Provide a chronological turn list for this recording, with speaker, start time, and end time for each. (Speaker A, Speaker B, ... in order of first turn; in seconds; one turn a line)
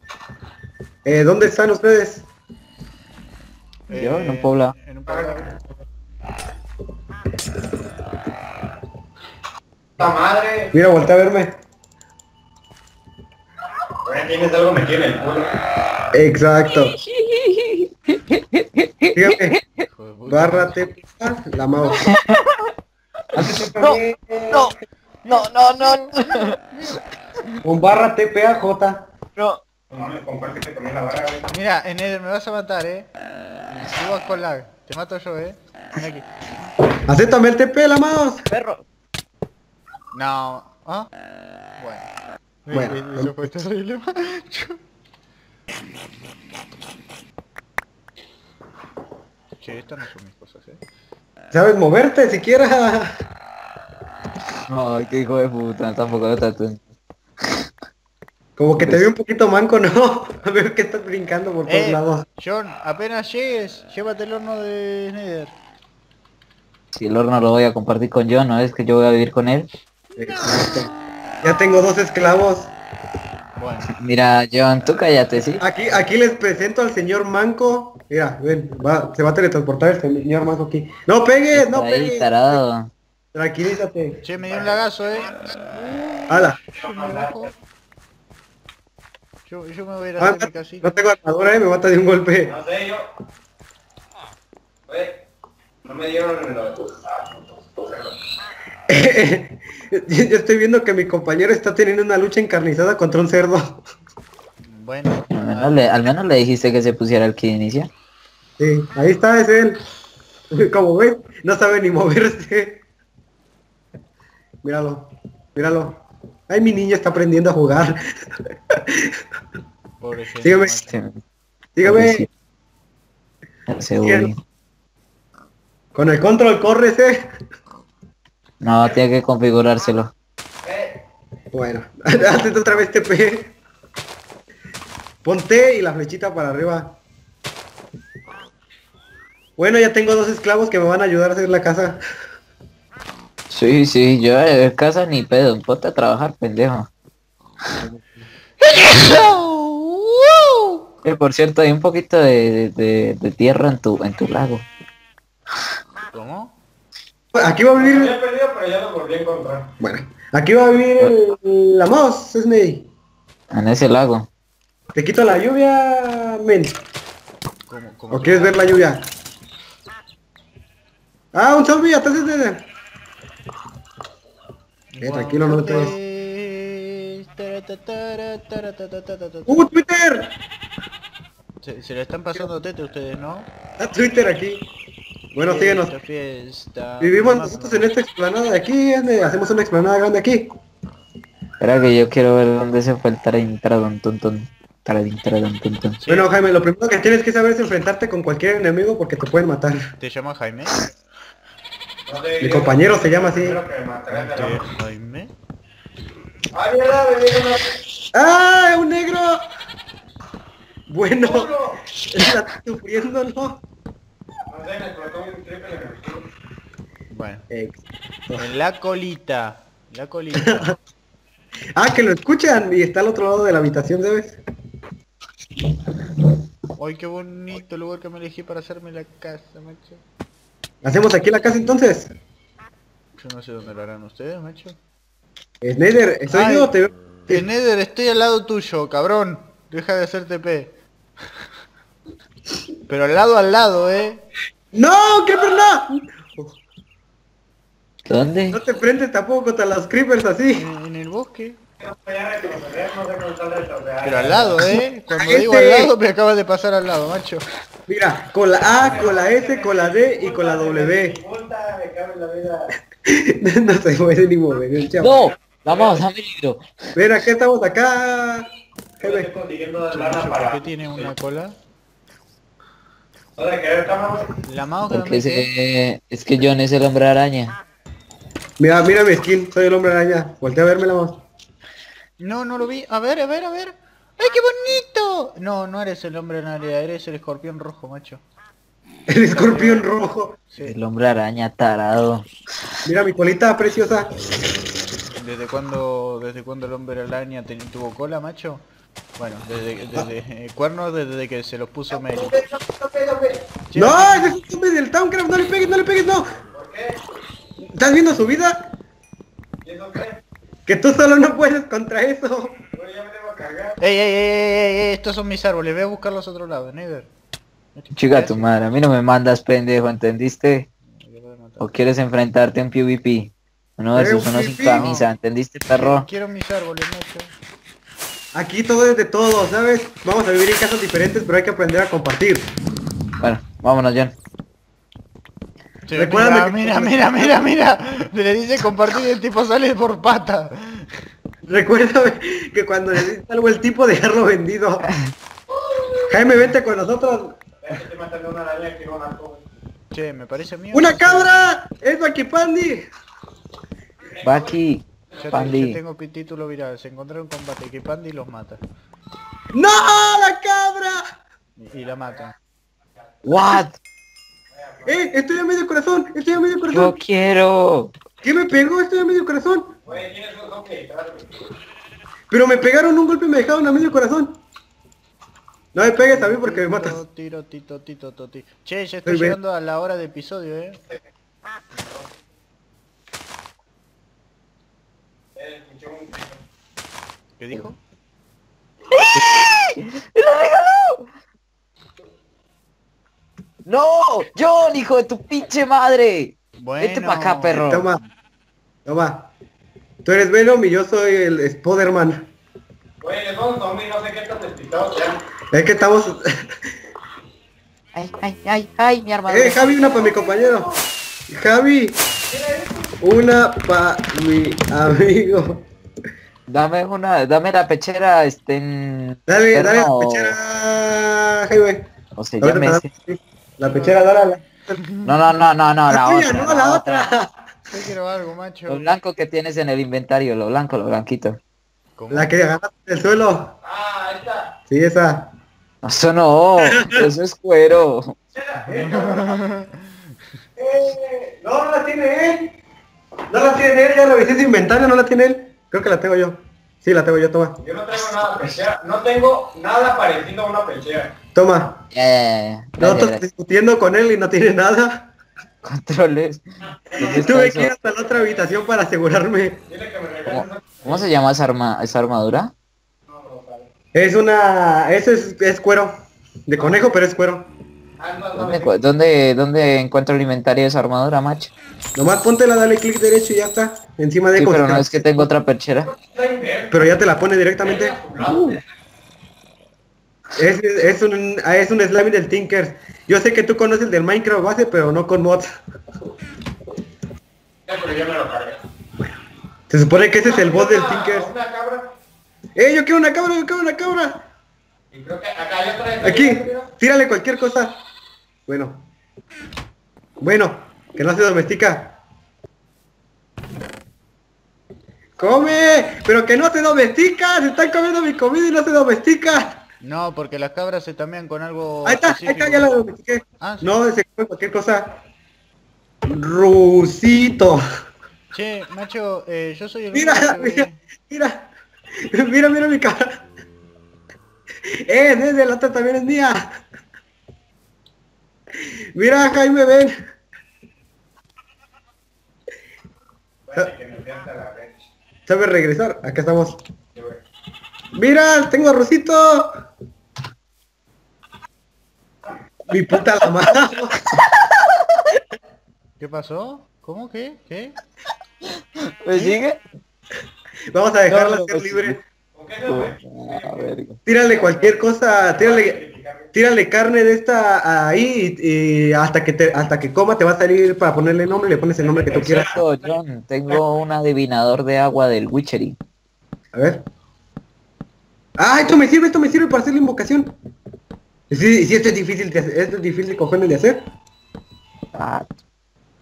Speaker A: 1.1-2.3
Speaker B: 3.9-5.5
Speaker C: 3.9-4.8
Speaker D: 5.1-5.5
Speaker D: 10.0-10.7
Speaker A: 10.7-11.6
Speaker D: 14.0-15.5
Speaker A: 16.1-17.0
Speaker C: 16.7-19.9
Speaker A: 19.1-19.6
Speaker B: 19.9-20.9
Speaker A: 20.3-22.2
Speaker C: 22.0-22.7
Speaker C: 23.3-24.0
Speaker A: 23.3-24.7
Speaker B: 25.2-27.6
Speaker C: 25.3-26.6
Speaker A: 27.6-29.1
Speaker C: 29.4-29.6
Speaker D: 29.9-31.5
Speaker B: 31.5-33.1
Speaker B: 33.7-36.3
Speaker A: 37.1-38.5
Speaker C: 38.5-38.8
Speaker B: 40.1-41.1
Speaker B: 41.8-42.1
Speaker B: 42.7-44.8
Speaker A: 42.7-43.5
Speaker B: 49.6-50.8
Speaker A: 51.5-53.1
Speaker C: 54.7-56.9
Speaker A: 58.6-62.2
Speaker C: 58.8-59.1
Speaker B: 61.7-65.5
Speaker C: 66.9-69.7
Speaker B: 70.2-70.9
Speaker A: 70.2-70.9
Speaker A: 71.4-72.7
Speaker B: 73.6-73.9
Speaker C: 73.9-75.6
Speaker A: 75.6-82.6
Speaker C: 81.5-82.9
Speaker A: 83.3-84.2
Speaker B: 84.2-87.5
Speaker A: 86.3-86.6
Speaker D: 86.8-87.5
Speaker B: 89.5-91.0
Speaker A: 90.2-92.5
Speaker D: 92.5-93.1
Speaker D: 94.9-95.2
Speaker D: 95.8-97.0
Speaker D: 97.7-98.1
Speaker A: 98.9-103.8
Speaker B: 104.7-105.8
Speaker C: 105.3-107.9
Speaker A: 108.6-109.8
Speaker A: 110.5-112.8
Speaker A: 114.6-118.0
Speaker A: 118.7-119.2
Speaker B: 120.0-121.0
Speaker A: 120.4-120.8
Speaker C: 120.9-121.2
Speaker A: 121.8-122.3
Speaker C: 121.8-122.3
Speaker C: 123.7-124.4
Speaker A: 124.0-124.3
Speaker A: 126.0-127.2
Speaker C: 128.6-130.1
Speaker D: 130.6-131.0
Speaker A: 131.5-133.5
Speaker A: 135.2-137.0
Speaker A: 139.6-142.0
Speaker C: 143.5-146.9
Speaker B: 148.6-150.8
Speaker C: 151.0-154.7
Speaker B: 156.1-156.6
Speaker A: 157.3-158.2
Speaker D: 157.8-159.8
Speaker A: 159.8-162.9
Speaker C: 163.5-164.3
Speaker A: 164.9-166.8
Speaker B: 167.7-168.8
Speaker A: 168.1-169.1
Speaker A: 171.3-172.6
Speaker B: 174.9-179.7
Speaker A: 175.0-175.9
Speaker A: 179.5-180.3
Speaker B: 181.6-183.5
Speaker A: 183.8-184.7
Speaker A: 185.3-185.9
Speaker B: 185.4-187.9
Speaker A: 187.0-190.5
Speaker C: 191.6-196.0
Speaker B: 196.0-196.4
Speaker A: 196.1-199.9
Speaker B: 200.0-200.9
Speaker D: 202.1-204.7
Speaker A: 202.4-203.6
Speaker B: 204.1-205.3
Speaker D: 206.5-207.8
Speaker A: 208.1-209.4
Speaker A: 210.9-213.6
Speaker D: 211.2-211.8
Speaker D: 214.5-216.3
Speaker B: 217.1-217.5
Speaker A: 217.5-218.4
Speaker B: 218.4-220.8
Speaker A: 220.4-220.8
Speaker A: 221.8-224.4
Speaker B: 226.8-230.0
Speaker A: 230.8-232.1
Speaker B: 233.2-234.8
Speaker A: 235.6-237.4
Speaker B: 236.3-236.7
Speaker B: 237.3-240.7
Speaker B: 242.9-244.2
Speaker A: 244.7-246.6
Speaker C: 248.1-248.6
Speaker A: 248.5-250.7
Speaker B: 250.6-251.6
Speaker D: 251.8-254.7
Speaker B: 254.0-257.4
Speaker A: 255.1-255.9
Speaker A: 257.9-261.2
Speaker D: 258.8-262.7
Speaker A: 263.1-265.3
Speaker C: 265.0-266.7
Speaker D: 265.7-266.0
Speaker A: 267.0-268.5
Speaker A: 269.0-269.3
Speaker D: 269.0-271.1
Speaker B: 269.9-271.6
Speaker D: 273.4-274.4
Speaker B: 274.4-275.5
Speaker C: 274.9-277.6
Speaker A: 278.6-281.2
Speaker B: 282.2-288.2
Speaker A: 289.1-290.4
Speaker B: 289.4-289.6
Speaker B: 290.5-290.8
Speaker C: 290.6-292.3
Speaker A: 292.9-294.1
Speaker B: 295.2-298.6
Speaker B: 299.2-302.4
Speaker A: 302.4-306.4
Speaker B: 303.7-304.4
Speaker D: 306.4-307.0
Speaker A: 307.8-308.6
Speaker D: 309.6-310.2
Speaker A: 310.7-312.6
Speaker D: 312.7-313.8
Speaker B: 313.8-317.1
Speaker B: 317.8-318.5
Speaker C: 317.9-320.7
Speaker B: 320.9-321.7
Speaker C: 321.6-326.1
Speaker A: 323.9-325.0
Speaker B: 324.7-325.1
Speaker B: 325.7-327.3
Speaker A: 328.3-332.5
Speaker C: 333.2-334.2
Speaker B: 335.9-341.0
Speaker A: 335.9-337.4
Speaker A: 341.5-344.9
Speaker A: 346.0-347.4
Speaker D: 347.6-349.4
Speaker B: 349.9-351.5
Speaker A: 350.7-352.9
Speaker D: 354.2-354.6
Speaker C: 354.2-355.8
Speaker D: 355.1-355.5
Speaker B: 355.2-358.6
Speaker A: 359.5-361.1
Speaker B: 361.6-362.4
Speaker C: 363.2-363.8
Speaker D: 364.6-364.9
Speaker A: 364.9-366.9
Speaker C: 366.7-367.9
Speaker A: 368.2-369.8
Speaker D: 369.9-371.3
Speaker A: 372.3-374.4
Speaker A: 375.7-377.0
Speaker B: 376.0-380.8
Speaker A: 379.1-379.4
Speaker D: 385.4-386.4
Speaker B: 387.4-387.8
Speaker C: 388.9-391.1
Speaker C: 393.6-397.9
Speaker B: 396.6-397.7
Speaker A: 397.5-398.0
Speaker A: 398.9-399.3
Speaker A: 400.0-402.3
Speaker D: 403.0-405.2
Speaker A: 405.5-406.3
Speaker C: 407.9-410.1
Speaker A: 409.3-410.7
Speaker A: 411.3-412.0
Speaker D: 412.3-412.9
Speaker A: 413.0-415.6
Speaker C: 416.5-420.3
Speaker A: 419.3-421.8
Speaker C: 422.2-422.9
Speaker A: 422.4-424.8
Speaker B: 423.7-424.1
Speaker B: 424.7-425.1
Speaker C: 425.1-427.1
Speaker A: 425.9-427.3
Speaker B: 427.7-428.9
Speaker C: 428.7-431.4
Speaker B: 432.0-432.3
Speaker A: 432.1-433.5
Speaker D: 433.6-434.5
Speaker A: 434.7-435.3
Speaker C: 435.8-438.2
Speaker A: 436.6-437.1
Speaker D: 438.4-439.4
Speaker B: 438.7-440.2
Speaker A: 438.7-439.0
Speaker A: 440.6-442.5
Speaker A: 443.3-447.6
Speaker D: 447.6-451.2
Speaker A: 451.4-451.9
Speaker C: 451.9-453.2
Speaker A: 452.8-455.1
Speaker C: 455.6-457.7
Speaker D: 456.9-457.3
Speaker A: 457.0-459.6
Speaker D: 459.7-461.0
Speaker C: 460.3-462.5
Speaker D: 463.1-463.7
Speaker A: 463.9-467.5
Speaker D: 468.0-468.8
Speaker C: 468.4-471.5
Speaker A: 472.0-475.3
Speaker C: 474.4-475.9
Speaker D: 475.9-476.8
Speaker A: 476.7-478.0
Speaker D: 477.6-478.6
Speaker C: 478.2-478.6
Speaker A: 480.4-485.5
Speaker D: 487.7-488.6
Speaker A: 489.7-491.3
Speaker D: 490.2-491.9
Speaker A: 492.6-494.2
Speaker D: 494.9-496.7
Speaker A: 496.0-497.8
Speaker A: 498.5-498.9
Speaker A: 500.2-502.0
Speaker A: 505.2-509.6
Speaker B: 509.8-512.8
Speaker A: 511.9-515.0
Speaker B: 513.4-513.7
Speaker A: 516.1-517.6
Speaker B: 518.3-520.8
Speaker A: 519.9-521.5
Speaker A: 522.1-523.2
Speaker A: 524.9-526.6
Speaker A: 529.0-530.0
Speaker D: 533.5-534.7
Speaker A: 535.3-536.6
Speaker A: 537.9-539.6
Speaker A: 542.7-544.0
Speaker C: 544.1-545.0
Speaker B: 546.0-547.8
Speaker C: 548.5-549.6
Speaker B: 549.1-549.4
Speaker A: 550.7-552.0
Speaker C: 551.1-552.0
Speaker D: 552.4-556.3
Speaker C: 552.7-554.0
Speaker A: 554.1-555.8
Speaker A: 556.3-562.6
Speaker D: 561.9-562.7
Speaker C: 562.1-565.8
Speaker A: 566.5-566.9
Speaker A: 568.4-570.3
Speaker A: 571.3-573.8
Speaker C: 574.9-575.3